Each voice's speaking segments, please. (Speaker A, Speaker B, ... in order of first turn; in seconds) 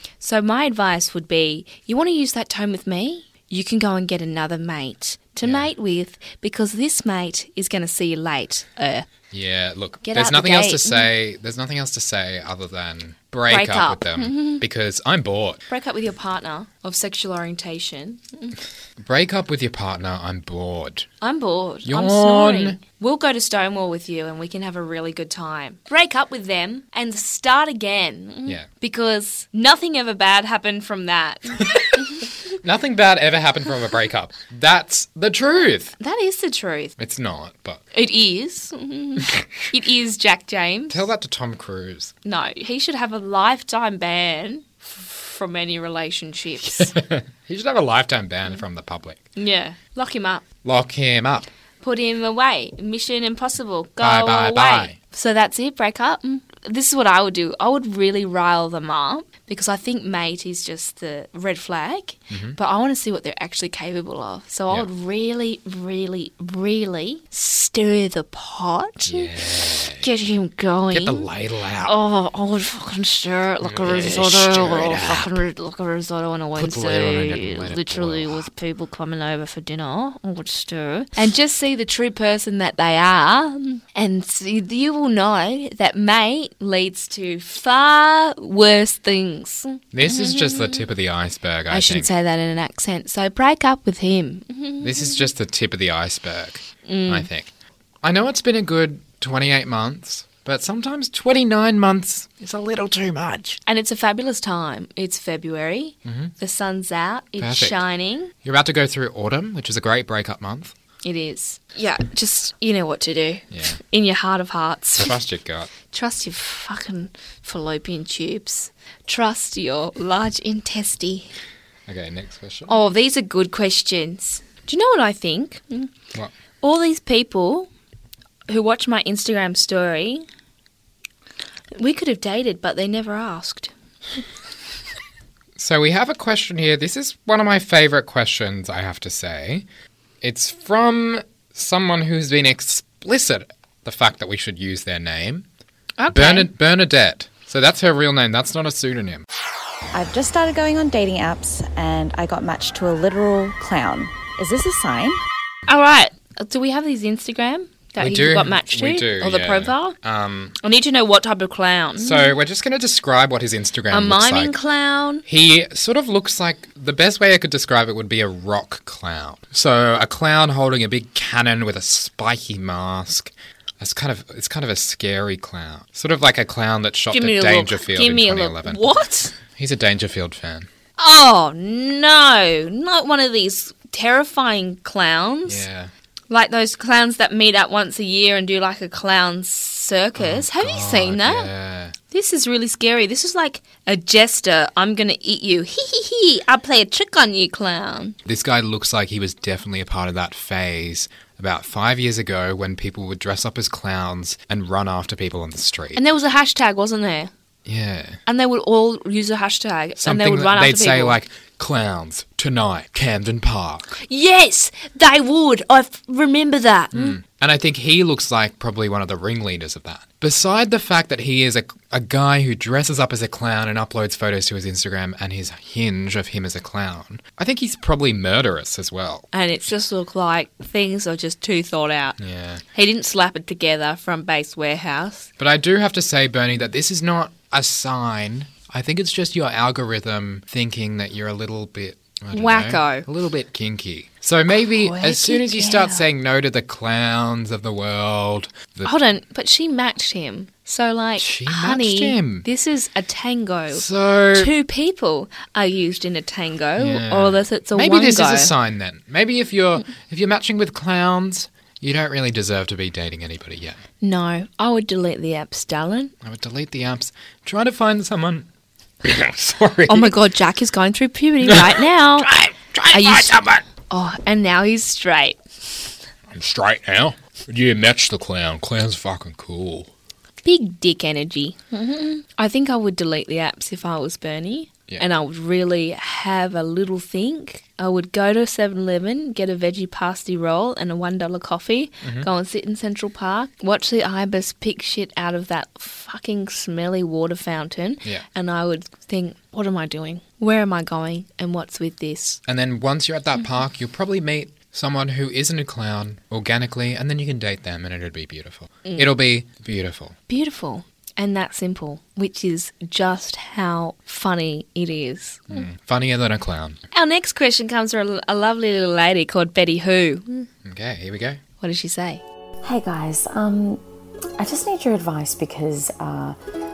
Speaker A: 0.2-9.1, 10.0-11.1, 13.5-14.6, 15.7-18.5, 21.2-32.3, 36.0-36.9, 37.9-41.1, 42.2-46.9, 49.4-50.4, 51.8-69.3, 70.0-71.3, 71.8-90.9, 91.7-95.3, 96.9-97.3, 103.7-108.3, 111.0-115.2, 115.9-121.3, 122.7-125.9, 126.6-127.7, 128.5-130.2, 131.8-133.7, 146.0-146.5, 155.7-160.0, 160.6-162.3, 163.9-165.2, 177.1-179.3, 181.0-185.7, 186.3-191.5, 192.1-198.2, 205.9-207.3, 208.3-211.2, 214.0-217.2, 229.3-232.2, 232.7-235.3, 242.3-243.1, 244.5-246.1, 248.8-258.5, 264.0-266.1, 269.9-272.3, 272.9-275.4, 280.4-302.4, 308.9-309.1, 310.3-315.6, 316.9-320.5, 321.6-322.2
Speaker B: 9.3-15.6, 19.0-21.1, 21.9-22.8, 32.6-36.0, 37.0-37.8, 40.9-42.1, 46.7-49.2, 50.6-51.5, 54.0-54.9, 62.3-62.6, 69.1-70.0, 70.9-72.0, 73.6-75.4, 76.6-78.5, 89.9-92.1, 94.8-97.5, 98.0-103.6, 106.0-106.3, 107.4-107.8, 108.4-110.7, 113.5-113.8, 115.0-115.7, 121.9-122.8, 135.6-139.7, 140.2-145.4, 146.1-149.2, 158.0-160.6, 162.0-164.5, 165.3-178.8, 179.5-180.7, 185.5-185.9, 190.2-191.9, 198.3-206.0, 207.7-208.2, 210.0-213.9, 216.9-229.3, 232.2-232.6, 235.4-248.9, 251.2-252.5, 253.7-254.5, 256.8-263.8, 266.2-268.5, 269.0-270.1, 271.5-273.6, 276.3-279.9, 302.5-310.2, 315.5-316.8, 320.6-321.4
Speaker C: 149.9-155.2
Speaker D: 322.6-323.8, 324.4-326.4